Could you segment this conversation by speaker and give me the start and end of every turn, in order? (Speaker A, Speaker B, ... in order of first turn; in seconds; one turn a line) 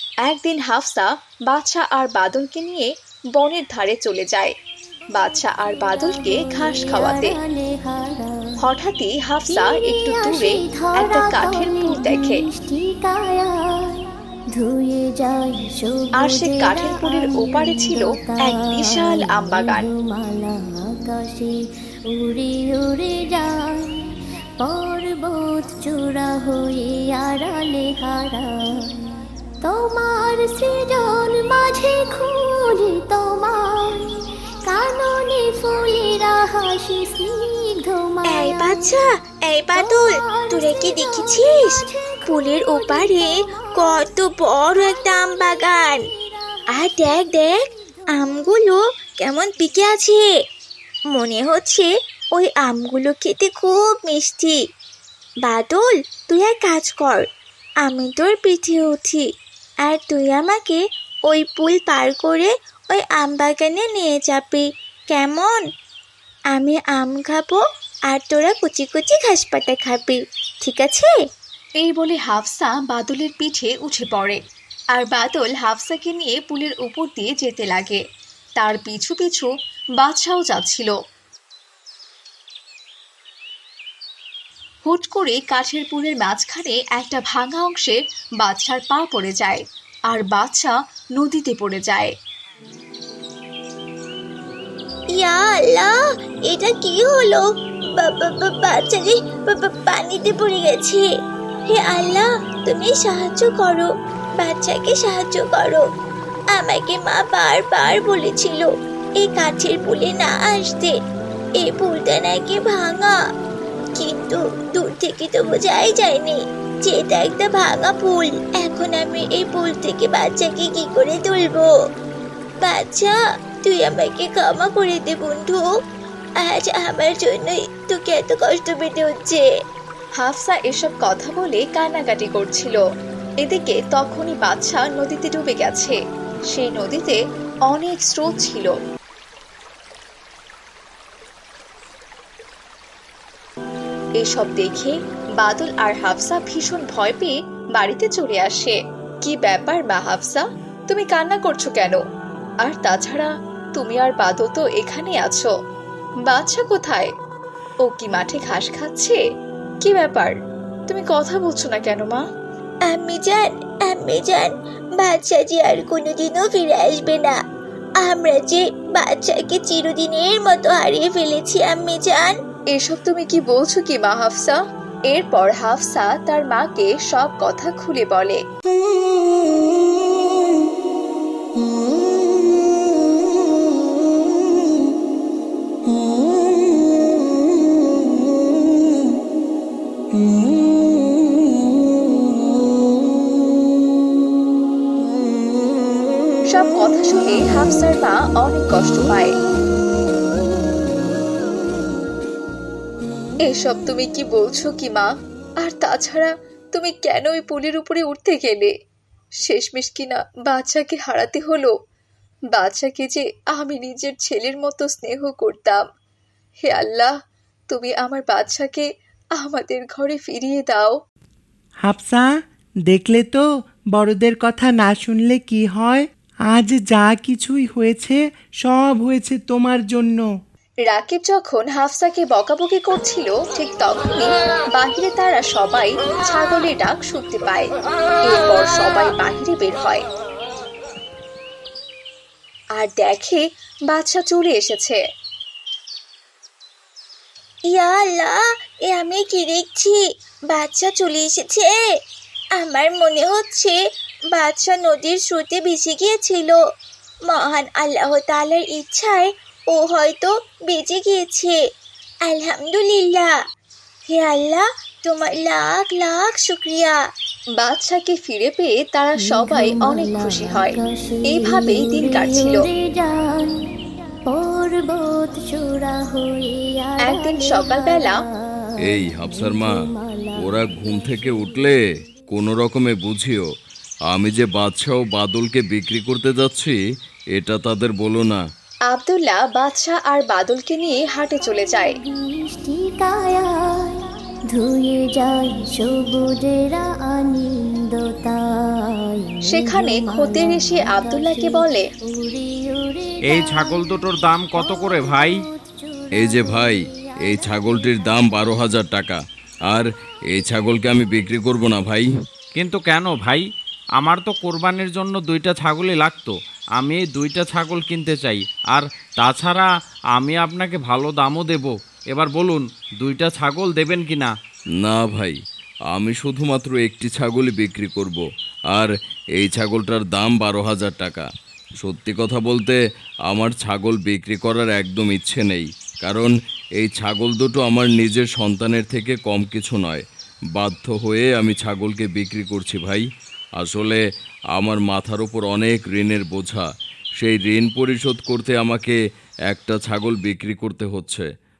Speaker A: 0.3-4.5
Speaker A: 5.2-7.4
Speaker B: 5.6-8.4
Speaker A: 8.6-12.4
Speaker B: 9.5-24.1
Speaker A: 16.2-19.9
Speaker B: 24.6-29.0
Speaker B: 29.6-34.1
Speaker B: 34.6-39.0
Speaker C: 38.3-46.0
Speaker B: 39.7-48.5
Speaker C: 46.7-47.5
Speaker C: 48.1-50.2
Speaker C: 51.1-54.6
Speaker C: 55.5-57.2
Speaker C: 57.8-59.2
Speaker C: 59.9-65.6
Speaker C: 66.5-71.2
Speaker A: 71.8-74.4
Speaker A: 75.0-78.0
Speaker A: 78.6-80.9
Speaker A: 84.8-92.1
Speaker C: 95.1-95.9
Speaker C: 96.5-101.1
Speaker C: 101.7-105.8
Speaker C: 106.5-110.9
Speaker C: 111.6-113.2
Speaker C: 114.0-121.7
Speaker C: 122.6-125.6
Speaker C: 126.4-129.5
Speaker A: 130.2-132.8
Speaker A: 133.4-136.0
Speaker A: 136.5-138.7
Speaker A: 144.2-152.0
Speaker A: 152.6-155.5
Speaker A: 156.3-157.1
Speaker A: 157.8-159.2
Speaker A: 159.8-160.3
Speaker A: 160.9-162.2
Speaker C: 162.9-167.4
Speaker C: 168.0-172.4
Speaker A: 172.7-174.6
Speaker A: 175.1-178.4
Speaker A: 196.5-199.3
Speaker A: 203.5-205.1
Speaker A: 205.6-208.7
Speaker A: 209.4-211.7
Speaker A: 212.5-215.8
Speaker A: 216.7-217.1
Speaker A: 217.7-220.9
Speaker D: 221.9-222.3
Speaker D: 222.9-230.3
Speaker A: 230.8-237.7
Speaker A: 238.3-240.1
Speaker A: 242.8-245.0
Speaker C: 247.7-251.8
Speaker C: 252.6-253.8
Speaker C: 254.3-256.6
Speaker C: 257.3-261.6
Speaker C: 262.2-263.3
Speaker C: 264.1-267.0
Speaker A: 267.6-270.8
Speaker B: 269.2-273.6
Speaker A: 271.3-272.6
Speaker B: 274.3-281.8
Speaker A: 277.1-278.2
Speaker E: 278.8-279.7
Speaker E: 280.4-283.5
Speaker E: 284.1-286.8
Speaker E: 287.4-288.4
Speaker A: 288.9-292.0
Speaker B: 291.5-308.3
Speaker A: 299.5-301.9
Speaker F: 303.3-305.4
Speaker E: 306.2-312.1
Speaker F: 312.6-313.4
Speaker F: 314.0-324.3
Speaker E: 324.8-325.4
Speaker E: 325.9-331.3
Speaker E: 331.8-340.0
Speaker E: 340.6-343.1
Speaker E: 343.6-344.0
Speaker E: 344.6-346.7
Speaker E: 347.2-349.0
Speaker E: 349.5-351.3